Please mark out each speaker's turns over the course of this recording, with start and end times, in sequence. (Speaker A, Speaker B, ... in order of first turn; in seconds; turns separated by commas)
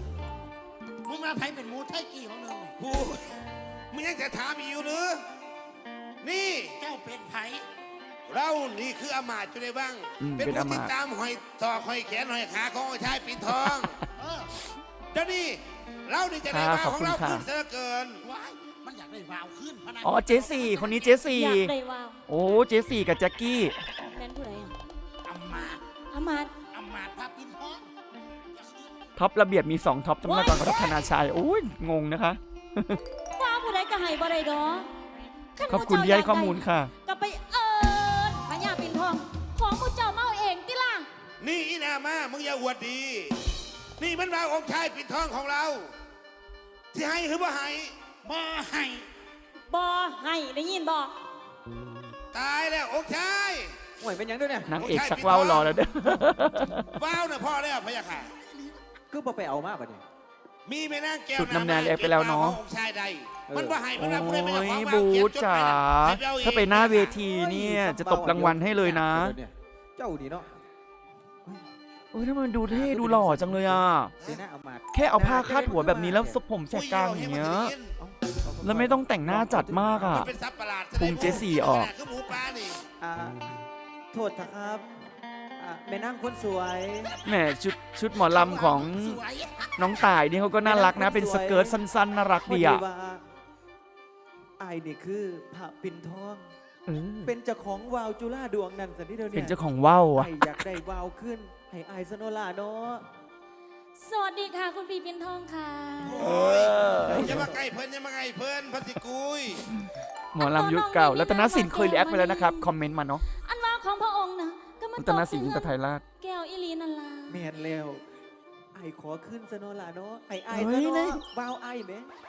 Speaker A: 1.0-2.7, Speaker B: 2.8-3.3, Speaker B: 3.9-5.2, Speaker B: 6.2-6.8, Speaker A: 6.8-7.7, Speaker B: 8.3-14.0, Speaker C: 10.2-10.9, Speaker A: 14.2-14.5, Speaker B: 15.1-18.2, Speaker C: 16.5-17.4, Speaker A: 18.2-21.1, Speaker C: 20.0-21.7, Speaker D: 21.2-22.2, Speaker C: 22.3-23.8, Speaker D: 24.1-24.7, Speaker A: 25.3-25.8, Speaker D: 26.1-26.5, Speaker A: 26.7-27.9, Speaker A: 28.5-28.9, Speaker C: 29.1-33.0, Speaker D: 30.2-31.1, Speaker D: 33.3-34.9, Speaker D: 35.5-41.1, Speaker C: 35.7-36.9, Speaker B: 41.4-43.4, Speaker B: 44.0-45.9, Speaker B: 46.9-48.1, Speaker A: 48.2-49.1, Speaker D: 49.7-51.2, Speaker B: 52.3-53.7, Speaker E: 54.0-54.7, Speaker C: 54.7-57.0, Speaker B: 54.7-55.8, Speaker B: 56.9-58.3, Speaker E: 59.1-60.0, Speaker B: 60.6-67.2, Speaker C: 61.4-62.6, Speaker E: 63.5-63.8, Speaker C: 64.0-69.4, Speaker E: 67.2-70.5, Speaker C: 72.1-74.1, Speaker E: 72.7-76.4, Speaker C: 74.9-77.7, Speaker B: 76.7-77.9, Speaker E: 78.0-80.3, Speaker C: 78.6-80.3, Speaker B: 80.1-82.9, Speaker C: 81.0-81.9, Speaker E: 83.0-83.5, Speaker E: 84.1-84.8, Speaker E: 85.6-87.2, Speaker C: 87.2-89.2, Speaker A: 88.1-89.8, Speaker C: 89.8-92.8, Speaker E: 90.6-91.8, Speaker E: 92.5-93.2, Speaker E: 94.6-96.4, Speaker C: 96.9-97.3, Speaker E: 97.2-99.6, Speaker C: 99.3-100.3, Speaker E: 100.1-103.0, Speaker D: 104.0-106.3, Speaker B: 106.0-109.7, Speaker C: 106.2-107.5, Speaker E: 107.1-107.6, Speaker C: 110.3-113.2, Speaker D: 110.4-112.7, Speaker D: 113.4-117.4, Speaker C: 115.0-116.0, Speaker E: 117.3-118.0, Speaker E: 118.7-122.1, Speaker C: 120.5-121.2